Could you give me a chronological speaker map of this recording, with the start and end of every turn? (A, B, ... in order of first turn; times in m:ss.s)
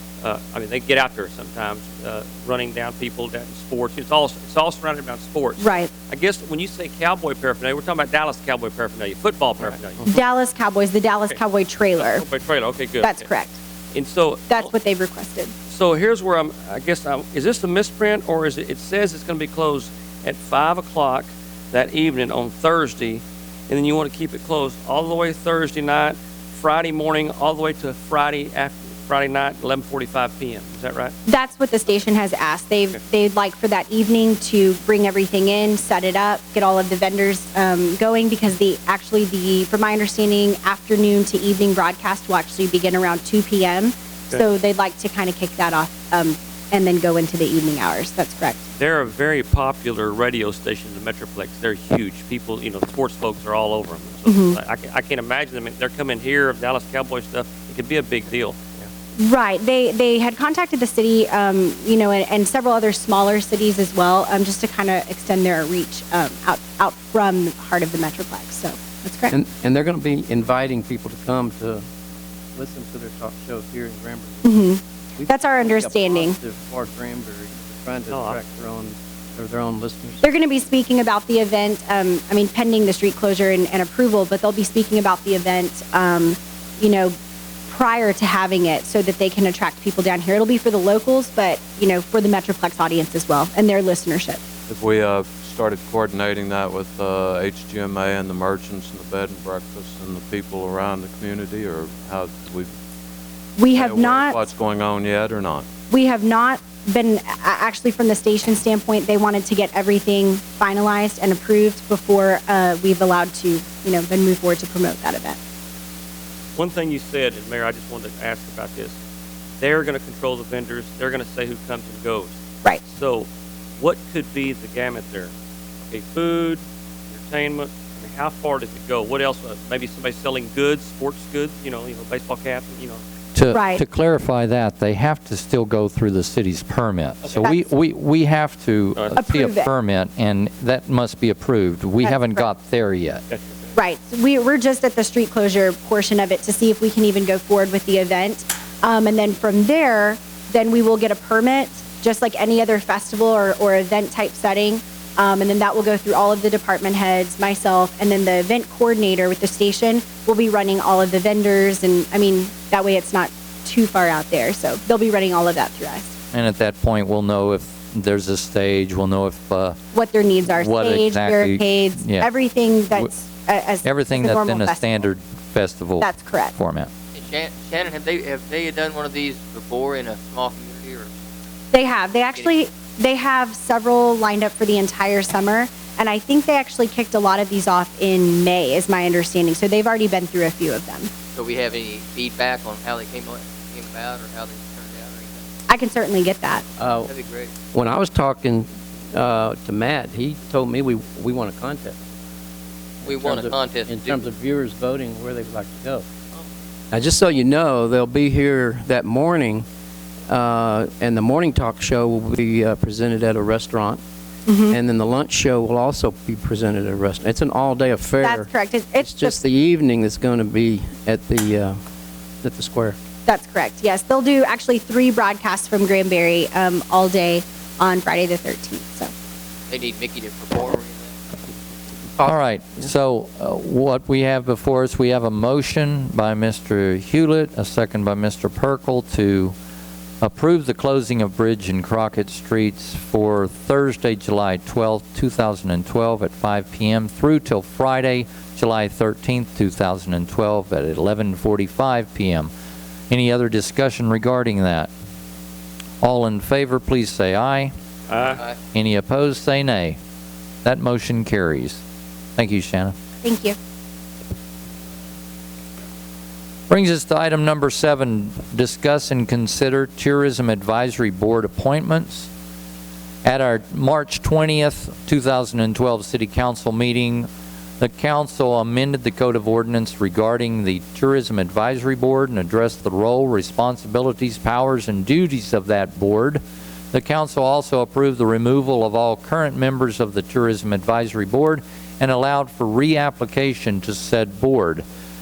0:00.2-0:10.2 A
0:05.6-0:05.9 B
0:10.1-0:12.3 B
0:12.0-0:13.3 A
0:13.0-0:13.6 B
0:13.9-0:14.7 A
0:14.5-0:15.5 B
0:15.7-0:31.1 A
0:31.3-0:48.7 B
0:48.7-0:58.6 A
0:54.3-0:54.6 B
0:59.2-1:09.4 B
1:09.3-1:11.9 C
1:12.6-1:20.2 C
1:14.4-1:16.4 B
1:18.1-1:18.4 A
1:20.2-1:27.2 B
1:27.7-1:34.4 B
1:34.7-1:42.7 D
1:43.6-1:44.4 B
1:43.7-1:45.7 D
1:45.9-1:55.4 B
1:56.6-1:59.0 A
1:59.6-2:05.3 A
2:05.9-2:13.0 A
2:13.4-2:23.2 E
2:13.5-2:13.8 B
2:17.2-2:17.5 A
2:19.0-2:19.2 A
2:19.2-2:19.7 B
2:22.0-2:22.5 B
2:23.8-2:46.1 B
2:46.3-2:49.8 E
2:49.9-2:55.0 B
2:50.5-2:52.3 E
2:53.8-2:56.9 E
2:56.0-2:56.6 B
2:57.1-3:01.1 F
3:01.7-3:11.1 B
3:11.4-3:15.1 F
3:15.7-3:16.6 B
3:16.8-3:17.1 C
3:17.2-3:17.5 F
3:17.7-3:22.0 C
3:23.0-3:26.0 C
3:23.1-3:24.2 F
3:26.9-3:29.7 C
3:30.3-3:34.0 C
3:34.5-3:34.8 B
3:34.7-3:41.8 C
3:38.2-3:39.4 B
3:42.4-3:43.0 C
3:43.3-3:49.1 B
3:49.7-3:51.0 F
3:52.2-3:52.9 C
3:52.2-3:59.6 E
4:00.2-4:12.5 E
4:13.1-4:14.9 E
4:16.0-4:17.7 E
4:18.1-4:18.4 A
4:18.7-4:20.0 E
4:20.6-4:21.8 E
4:22.4-4:22.9 E
4:23.2-4:23.6 B
4:26.7-4:32.3 E
4:33.2-4:37.3 E
4:37.8-4:46.4 E
4:46.9-4:54.8 E